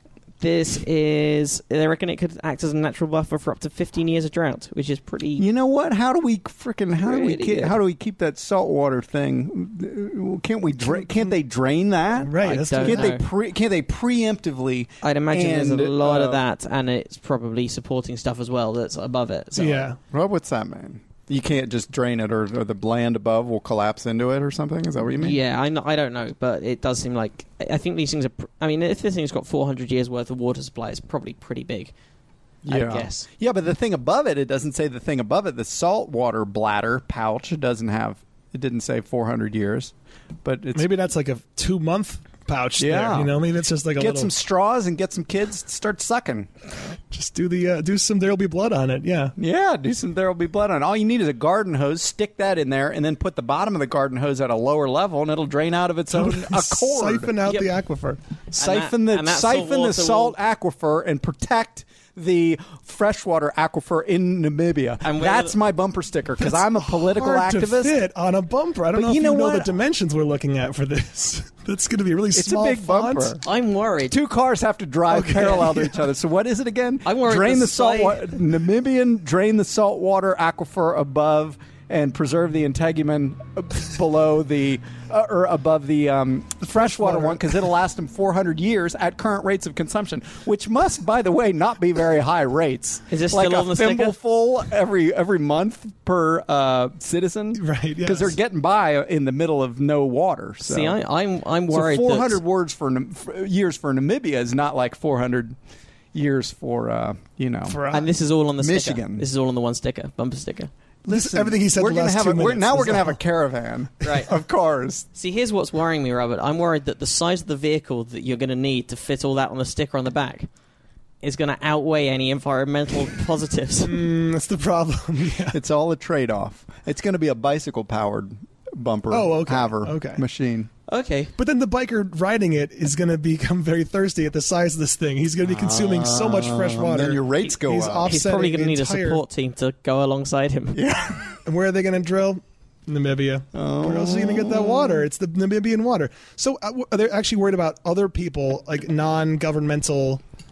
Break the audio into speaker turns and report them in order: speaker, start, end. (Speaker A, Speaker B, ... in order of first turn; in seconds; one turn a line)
Speaker A: 0.4-5.4
Speaker B: 5.4-16.4
Speaker A: 7.0-7.8
Speaker C: 12.2-13.2
Speaker A: 12.4-13.2
Speaker A: 15.0-19.9
Speaker C: 19.6-20.0
Speaker B: 20.1-25.4
Speaker A: 25.2-31.9
Speaker B: 32.6-39.9
Speaker A: 32.7-33.3
Speaker B: 40.4-40.9
Speaker C: 40.7-44.3
Speaker B: 42.8-43.3
Speaker B: 44.0-46.5
Speaker C: 47.1-49.3
Speaker B: 49.4-57.3
Speaker C: 56.1-58.2
Speaker A: 57.4-57.7
Speaker B: 58.5-68.0
Speaker A: 58.5-60.3
Speaker A: 65.0-65.5
Speaker C: 66.4-73.3
Speaker B: 68.9-69.7
Speaker B: 72.3-73.4
Speaker A: 73.4-74.2
Speaker B: 74.1-101.0
Speaker C: 75.1-76.1
Speaker A: 77.0-78.3
Speaker C: 86.7-87.4
Speaker A: 93.1-94.1
Speaker C: 97.5-98.3
Speaker A: 100.6-102.4
Speaker B: 101.7-105.6
Speaker B: 106.1-107.8
Speaker C: 107.7-108.1
Speaker A: 107.9-110.7
Speaker B: 108.6-109.2
Speaker B: 111.0-115.0
Speaker C: 111.1-113.2
Speaker A: 114.0-114.3
Speaker A: 115.1-120.5
Speaker A: 121.2-124.0
Speaker C: 123.8-125.6
Speaker B: 125.5-130.7
Speaker C: 129.1-130.2
Speaker A: 130.9-131.3
Speaker C: 131.4-139.2
Speaker B: 135.4-138.1
Speaker A: 138.0-140.8
Speaker B: 140.7-141.4
Speaker C: 141.4-150.2
Speaker B: 143.5-145.0